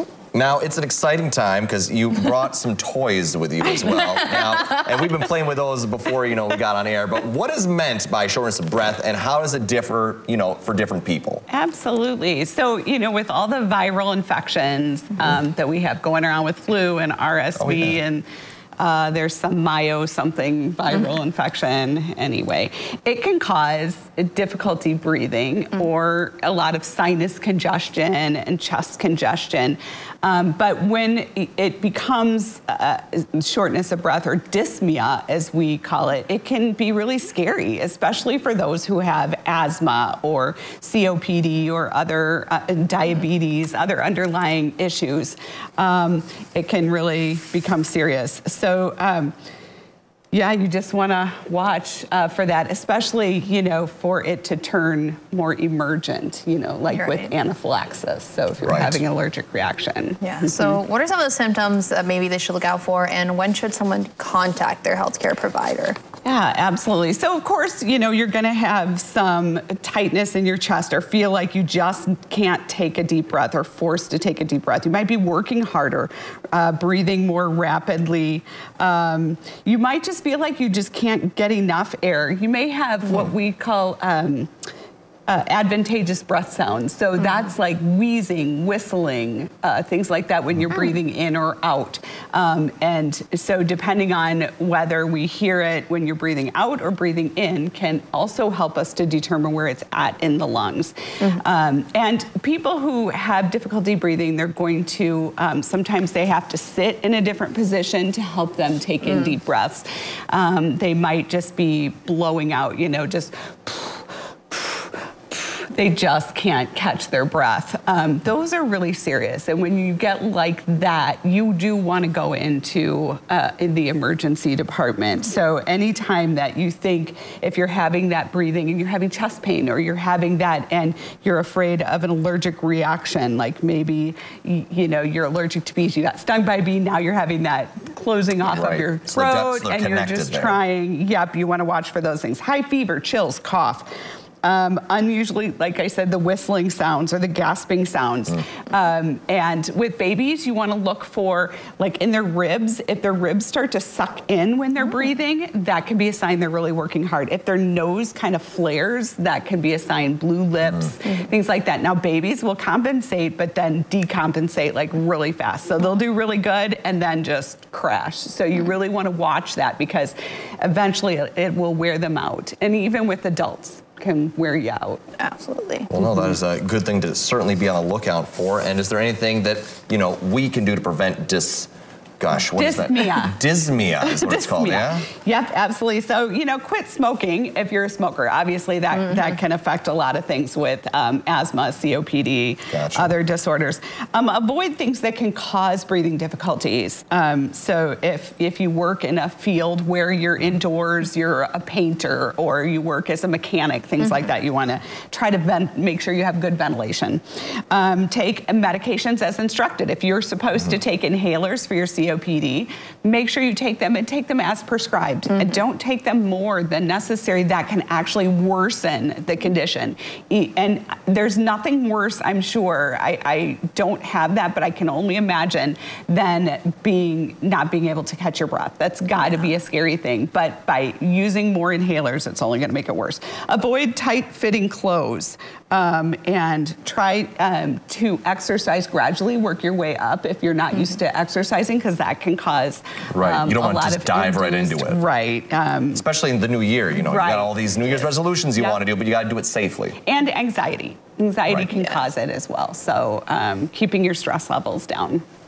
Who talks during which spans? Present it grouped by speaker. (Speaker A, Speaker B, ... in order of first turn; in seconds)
Speaker A: 0.3-11.4, 17.6-18.0, 58.6-59.0, 138.4-140.6, 175.9-185.1, 192.7-193.1, 243.1-245.0, 245.9-250.0
Speaker B: 11.5-18.2, 18.8-49.3, 50.3-60.8, 66.2-84.5, 85.3-143.9, 144.4-175.0, 182.5-183.4, 184.0-246.0, 247.0-248.8, 250.1-255.2
Speaker C: 56.9-57.3, 60.2-66.0, 175.2-175.9, 251.7-252.0